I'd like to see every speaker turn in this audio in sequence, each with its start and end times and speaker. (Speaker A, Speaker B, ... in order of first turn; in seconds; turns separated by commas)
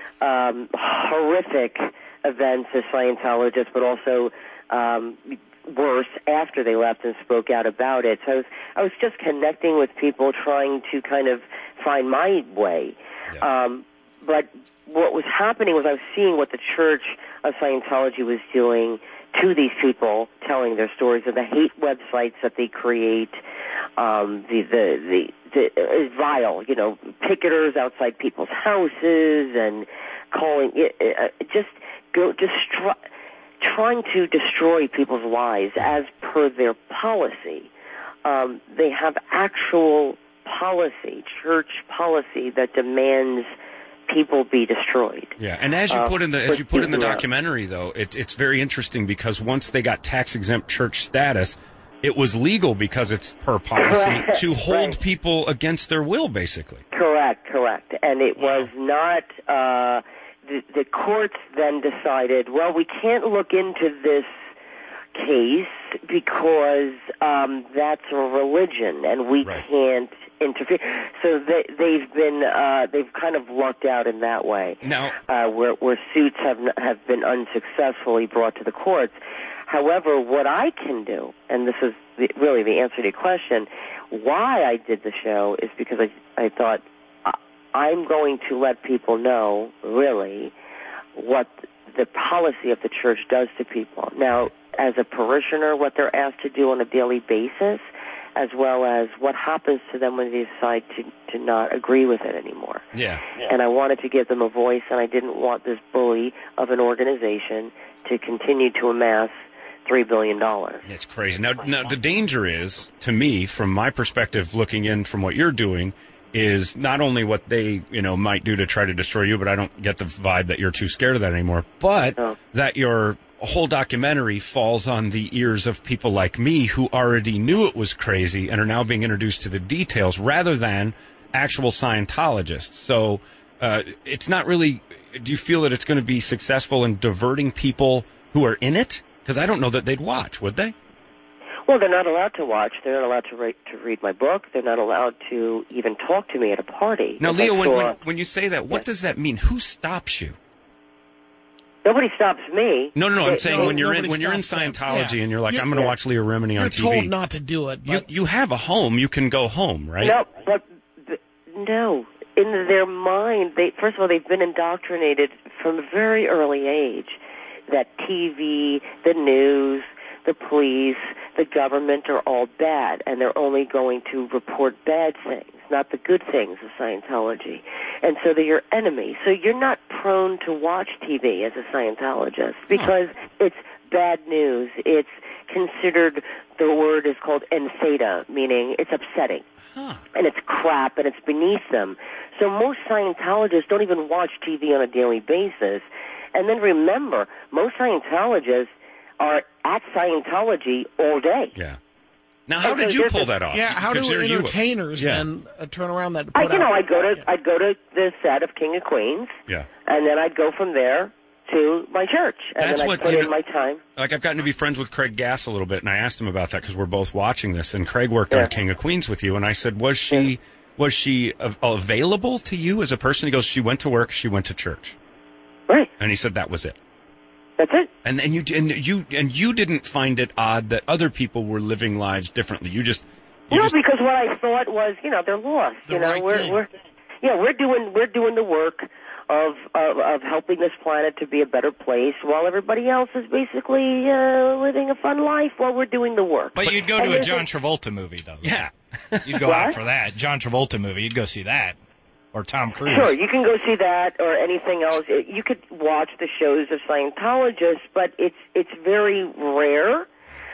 Speaker A: 0.2-23.4, Speaker A: 24.0-33.0, Speaker A: 33.6-37.7, Speaker A: 38.2-43.5, Speaker A: 44.1-45.3, Speaker B: 45.4-56.8, Speaker A: 45.9-47.2, Speaker A: 53.8-55.0, Speaker A: 56.9-64.3, Speaker B: 58.4-58.7, Speaker A: 65.2-90.5, Speaker B: 74.8-75.2, Speaker A: 91.2-97.8, Speaker A: 98.4-102.8, Speaker B: 102.9-103.2, Speaker A: 103.4-109.3, Speaker A: 109.8-110.8, Speaker B: 110.8-140.8, Speaker A: 141.7-148.0, Speaker B: 147.2-150.4, Speaker A: 151.8-153.8, Speaker B: 152.9-157.1, Speaker C: 153.3-155.9, Speaker C: 156.6-158.1, Speaker B: 157.8-160.2, Speaker A: 160.0-167.2, Speaker A: 167.7-189.4, Speaker B: 189.8-190.0, Speaker A: 190.2-201.6, Speaker B: 202.5-205.3, Speaker A: 202.6-203.3, Speaker C: 203.5-207.2, Speaker A: 206.3-209.3, Speaker A: 209.9-213.8, Speaker B: 212.6-213.3, Speaker B: 214.0-225.0, Speaker B: 226.0-226.8, Speaker A: 227.6-227.9, Speaker B: 228.0-233.8, Speaker A: 233.5-236.7, Speaker C: 235.9-236.6, Speaker A: 237.2-247.5, Speaker D: 246.6-248.6, Speaker B: 248.4-249.3, Speaker D: 249.3-251.8, Speaker A: 249.4-249.8, Speaker D: 252.3-253.2, Speaker A: 252.8-260.1